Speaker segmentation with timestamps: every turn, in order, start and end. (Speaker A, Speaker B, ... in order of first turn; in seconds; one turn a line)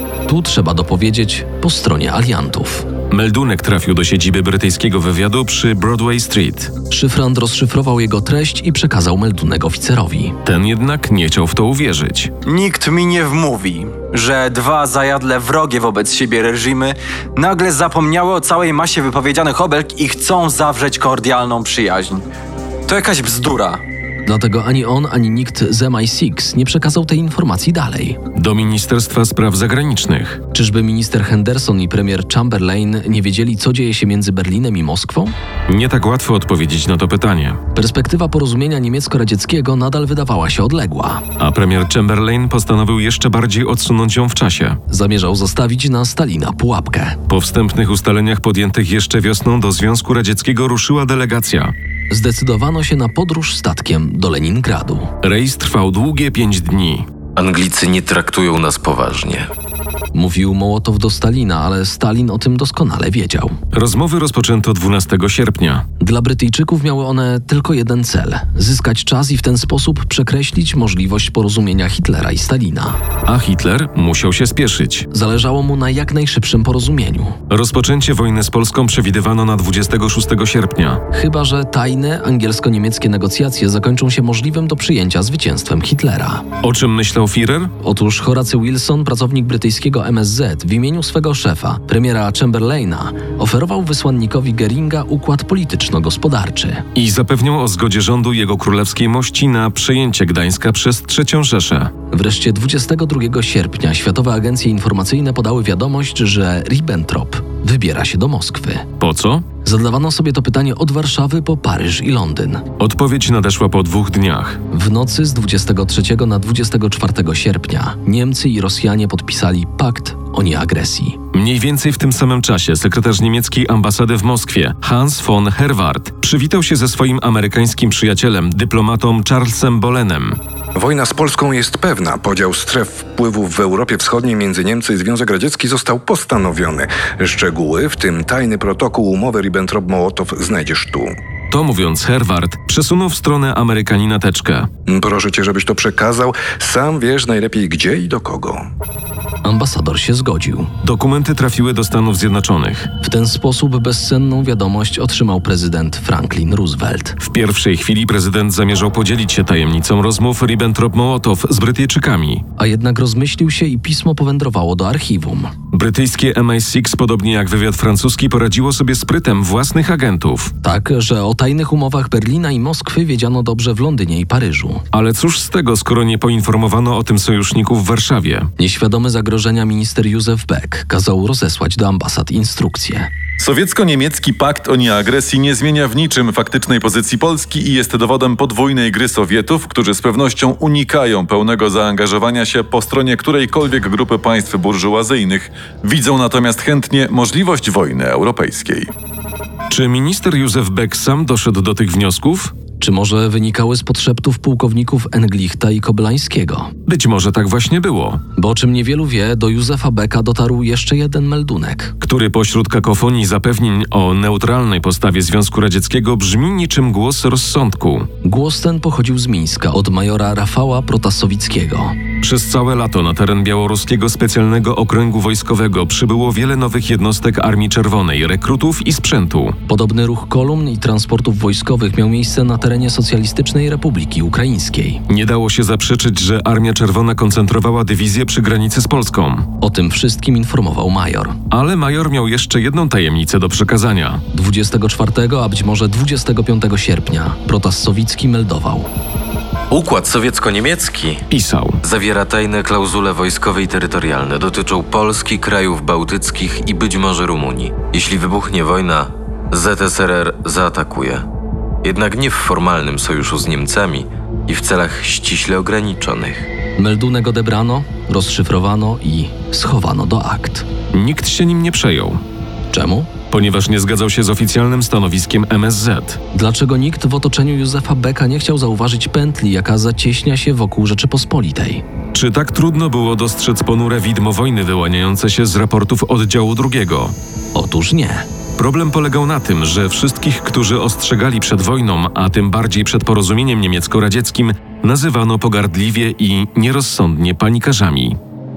Speaker A: 0.3-2.9
Speaker B: 3.1-6.7
Speaker A: 6.9-10.3
Speaker B: 10.4-12.3
Speaker C: 12.4-22.2
Speaker C: 22.9-23.8
Speaker A: 24.2-28.2
Speaker B: 28.3-30.4
Speaker A: 30.5-35.3
Speaker B: 35.7-37.6
Speaker A: 37.7-41.2
Speaker B: 41.4-44.8
Speaker A: 44.9-47.2
Speaker B: 47.3-51.7
Speaker A: 52.1-55.1
Speaker B: 55.2-57.0
Speaker D: 57.4-59.5
Speaker A: 60.1-63.5
Speaker B: 63.7-65.8
Speaker A: 66.0-73.0
Speaker B: 73.2-75.0
Speaker A: 75.1-77.3
Speaker B: 77.5-81.0
Speaker A: 81.1-86.4
Speaker B: 86.6-87.7
Speaker A: 87.8-96.8
Speaker B: 96.9-101.9
Speaker A: 102.1-108.9
Speaker B: 109.0-109.4
Speaker A: 109.6-112.6
Speaker B: 112.8-114.6
Speaker A: 114.7-121.2
Speaker B: 121.3-130.4
Speaker E: 130.7-141.1
Speaker B: 141.5-144.7
Speaker E: 144.9-148.6
Speaker A: 149.4-150.7
Speaker B: 150.8-152.9
Speaker A: 153.0-157.2
Speaker B: 157.2-162.4
Speaker A: 162.6-165.5
Speaker B: 165.7-170.5
Speaker A: 170.6-174.8
Speaker B: 174.9-178.5
Speaker A: 178.6-183.1
Speaker F: 183.4-198.9
Speaker B: 199.7-202.6
Speaker A: 202.8-206.7
Speaker B: 206.8-208.2
Speaker A: 208.3-211.9
Speaker B: 212.0-218.1
Speaker A: 218.2-221.9
Speaker B: 222.2-229.6
Speaker A: 229.7-235.0
Speaker B: 235.1-239.5
Speaker A: 239.6-241.4
Speaker B: 241.5-244.2
Speaker A: 244.3-248.9
Speaker D: 249.7-251.2
Speaker B: 251.3-251.8
Speaker D: 251.8-261.2
Speaker D: 261.8-266.5
Speaker A: 266.8-270.7
Speaker B: 270.9-272.2
Speaker A: 272.7-273.1
Speaker B: 273.3-276.2
Speaker A: 276.3-281.8
Speaker B: 282.1-287.1
Speaker A: 287.5-288.2
Speaker B: 288.6-298.2